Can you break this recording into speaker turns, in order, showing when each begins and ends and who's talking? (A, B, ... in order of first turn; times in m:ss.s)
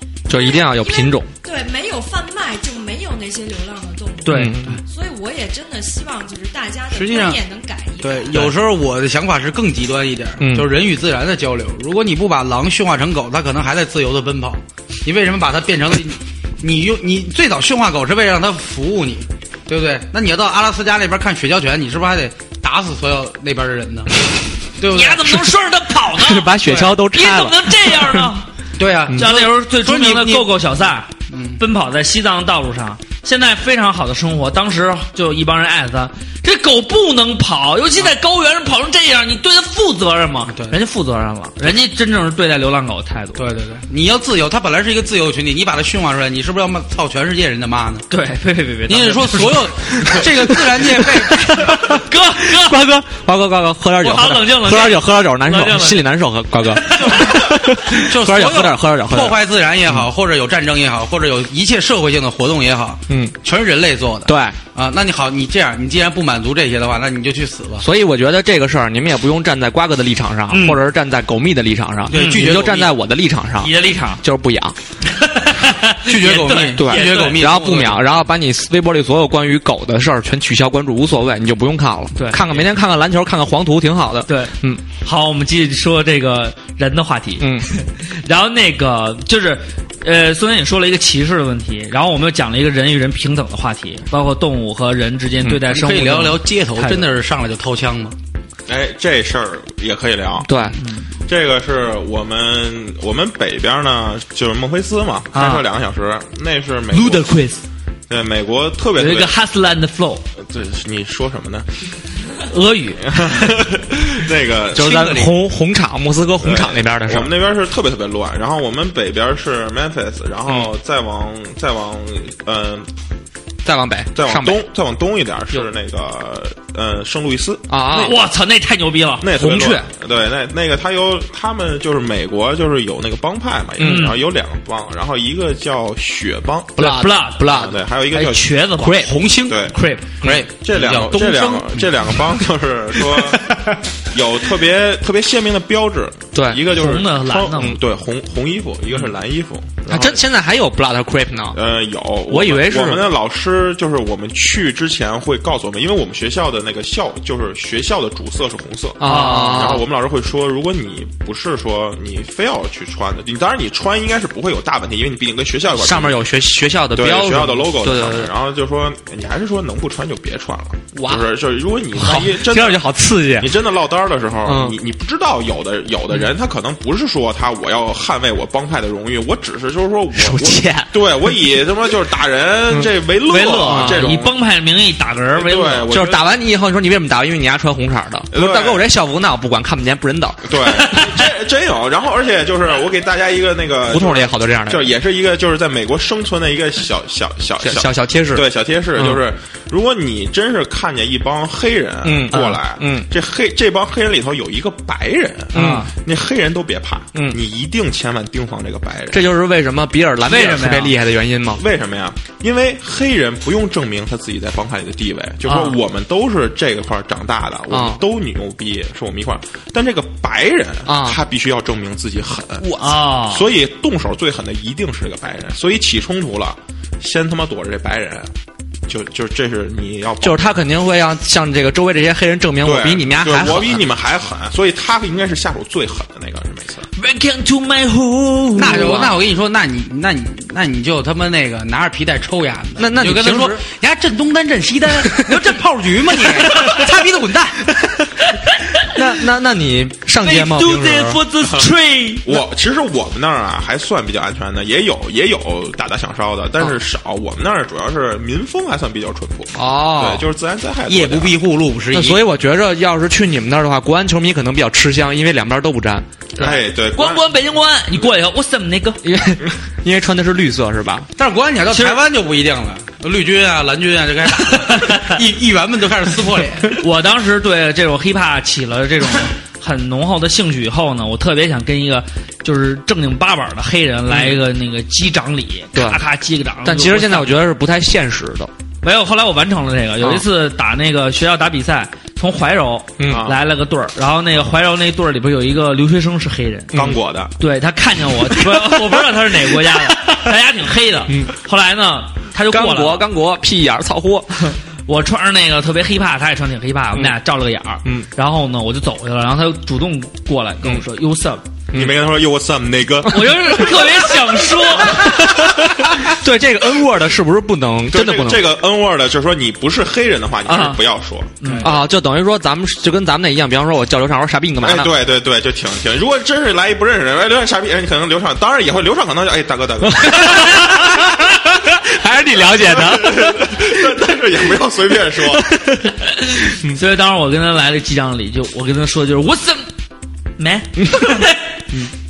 0:00.3-0:01.3 A
0:00.3-0:08.4 B
0:04.2-0:04.5 C
0:04.3-0:04.8 A
0:06.9-0:07.4 D
0:08.0-0:24.2 D
0:10.4-0:10.7 A
0:24.8-0:25.5 D
0:24.9-0:26.5 C
0:26.1-0:28.3 A
0:26.6-0:27.0 D
0:27.1-0:28.5 C
0:28.8-0:30.7 D
0:29.2-0:43.4 C
0:31.3-0:31.6 D
0:40.5-0:40.8 D
0:43.3-0:48.1 D
0:48.1-0:50.2 C
0:48.9-0:51.8 D
0:50.8-1:00.0 A
0:51.6-0:52.8 C
0:54.0-0:56.0 C
0:56.8-0:57.3 C
0:57.0-1:07.8 D
1:03.1-1:03.4 A
1:04.2-1:04.6 A
1:07.8-1:14.7 A
1:10.5-1:10.8 C
1:12.1-1:12.9 D
1:12.1-1:12.5 C
1:13.6-1:14.2 C
1:15.0-1:17.4 C
1:16.0-1:18.0 D
1:16.8-1:24.8 A
1:22.1-1:22.7 C
1:24.3-1:37.1 C
1:27.4-1:27.7 A
1:35.6-1:38.2 D
1:38.7-1:40.5 E
1:40.4-1:40.8 A
1:40.8-1:41.0 C
1:41.3-1:47.4 E
1:45.3-1:45.6 C
1:46.9-1:47.6 C
1:48.1-1:49.4 E
1:49.0-1:50.2 C
1:50.4-1:51.7 E
1:52.5-1:53.5 C
1:53.0-1:55.2 E
1:54.7-1:57.3 A
1:54.8-1:55.3 D
1:56.4-2:02.9 E
2:00.5-2:00.7 A
2:03.6-2:04.6 A
2:04.1-2:08.2 E
2:07.7-2:08.2 A
2:08.0-2:09.9 C
2:09.2-2:16.8 E
2:13.8-2:14.1 A
2:13.8-2:14.1 C
2:16.8-2:17.8 A
2:16.8-2:17.4 C
2:17.4-2:18.6 E
2:18.1-2:20.3 C
2:18.8-2:22.1 D
2:19.4-2:19.8 E
2:20.5-2:23.5 E
2:24.1-2:30.2 E
2:26.3-2:26.6 A
2:26.7-2:27.8 C
2:29.9-2:31.6 A
2:31.5-2:46.2 E
2:32.3-2:33.1 A
2:39.0-2:39.8 A
2:39.0-2:39.6 C
2:45.7-2:48.3 A
2:46.9-2:52.8 E
2:50.9-2:51.3 A
2:51.9-2:53.5 A
2:53.4-3:04.3 E
2:54.4-2:54.8 A
3:00.1-3:00.9 A
3:03.3-3:05.9 C
3:03.6-3:04.1 A
3:05.3-3:06.3 E
3:05.9-3:10.9 A
3:08.3-3:08.9 E
3:10.4-3:29.3 E
3:13.9-3:14.9 A
3:17.6-3:19.2 A
3:22.0-3:23.1 A
3:25.5-3:25.9 C
3:25.5-3:25.9 A
3:27.1-3:27.4 A
3:29.1-3:31.6 A
3:30.2-3:30.9 C
3:31.6-3:42.7 E
3:35.4-3:35.8 C
3:37.7-3:38.0 A
3:40.9-3:41.2 A
3:42.6-3:42.9 A
3:42.8-3:43.5 C
3:43.2-3:48.3 E
3:48.9-3:50.6 E
3:50.2-3:53.8 A
3:52.6-3:56.8 E
3:57.0-3:59.0 C
3:58.6-3:59.2 A
3:58.6-4:07.8 D
4:02.8-4:03.6 A
4:06.3-4:06.8 C
4:08.3-4:08.9 C
4:08.9-4:11.2 A
4:10.2-4:12.4 C
4:12.2-4:21.4 E
4:19.5-4:20.2 A
4:20.9-4:22.2 D
4:21.9-4:26.6 A
4:26.4-4:27.2 E
4:26.4-4:29.0 C
4:29.0-4:31.1 A
4:31.2-4:36.7 D
4:31.7-4:32.0 C
4:34.6-4:35.2 C
4:36.8-4:47.3 C
4:45.7-4:46.0 A
4:46.6-4:48.5 A
4:48.8-4:56.9 C
4:53.0-4:53.2 A
4:53.0-4:53.4 E
4:56.7-4:57.0 A
4:56.8-4:57.3 E
4:57.4-5:03.1 C
4:58.5-4:58.8 A
4:59.9-5:00.2 A
5:02.5-5:04.3 A
5:04.8-5:11.4 C
5:11.7-5:12.0 A
5:11.7-5:15.7 E
5:13.1-5:15.2 C
5:14.8-5:18.5 A
5:17.9-5:21.3 E
5:20.5-5:20.8 C
5:21.4-5:21.7 C
5:21.4-5:21.7 D
5:21.6-5:24.9 A
5:24.6-5:30.6 E
5:29.9-5:33.8 A
5:32.4-5:35.5 E
5:36.1-5:39.7 C
5:40.4-5:41.6 C